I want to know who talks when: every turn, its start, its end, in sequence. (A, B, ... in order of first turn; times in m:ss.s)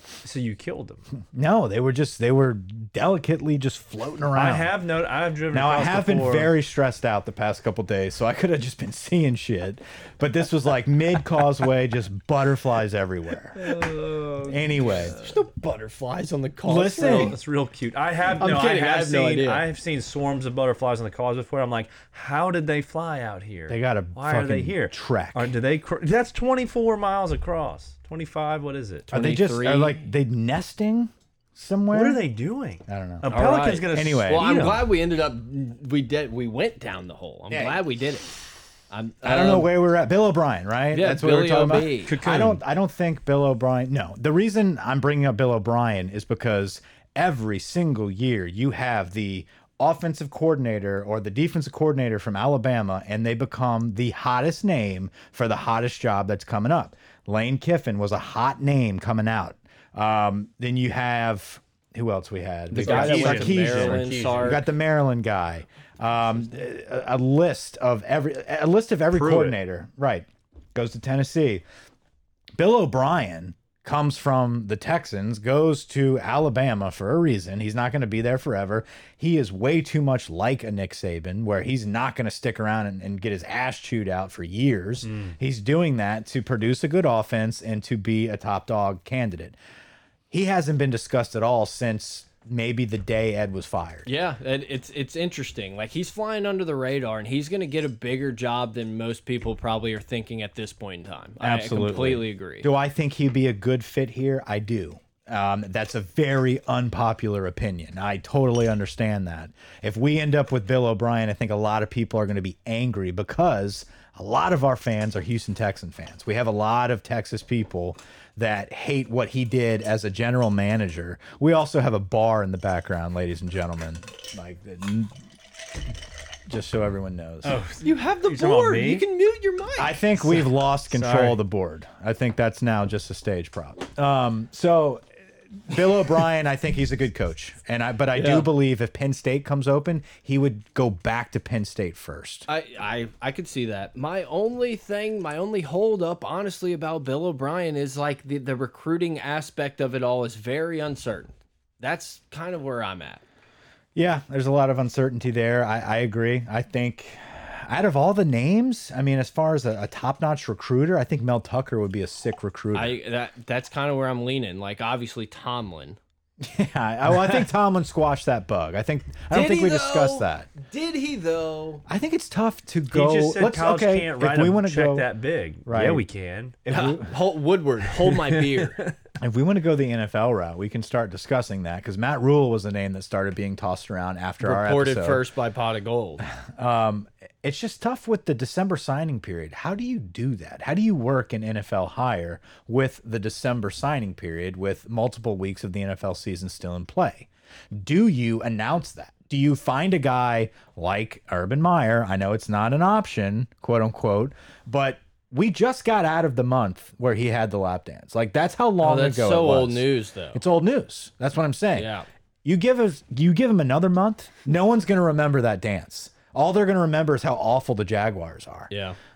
0:00.2-0:01.0 A
0:01.3-0:04.7 B
0:04.3-0:06.5 A
0:05.5-0:13.8 B
0:13.5-0:15.3 A
0:14.5-0:15.1 B
0:15.1-0:17.4 C
0:16.7-0:17.4 B
0:17.0-0:29.1 A
0:18.4-0:19.6 C
0:23.7-0:25.5 B
0:29.1-0:30.1 C
0:29.1-0:32.2 B
0:31.9-0:34.9 A
0:32.9-0:34.6 B
0:33.3-0:38.3 C
0:37.5-0:37.8 B
0:38.9-0:39.7 C
0:39.2-1:11.6 B
0:40.9-0:42.1 C
0:42.0-0:42.6 A
1:02.7-1:04.6 A
1:02.7-1:04.6 C
1:09.1-1:09.6 A
1:12.6-1:29.6 B
1:25.0-1:25.3 A
1:30.3-1:34.1 B
1:34.0-1:42.7 C
1:41.4-2:05.1 B
2:06.5-2:07.6 B
2:07.4-2:09.0 A
2:07.8-2:10.4 C
2:09.8-2:15.0 B
2:10.9-2:11.4 A
2:15.6-2:22.5 B
2:18.1-2:18.5 C
2:22.5-2:33.2 C
2:33.9-2:43.0 B
2:42.7-2:46.0 C
2:46.4-2:50.5 B
2:49.3-2:51.8 C
2:51.9-2:55.1 B
2:52.9-2:56.6 A
2:55.6-2:56.0 B
2:56.6-2:57.2 B
2:56.7-2:58.8 C
2:58.0-2:58.9 A
2:59.2-3:05.3 B
3:04.4-3:06.2 C
3:06.3-3:31.9 B
3:28.8-3:30.4 C
3:31.7-3:32.0 C
3:32.4-3:38.7 B
3:38.7-3:39.0 C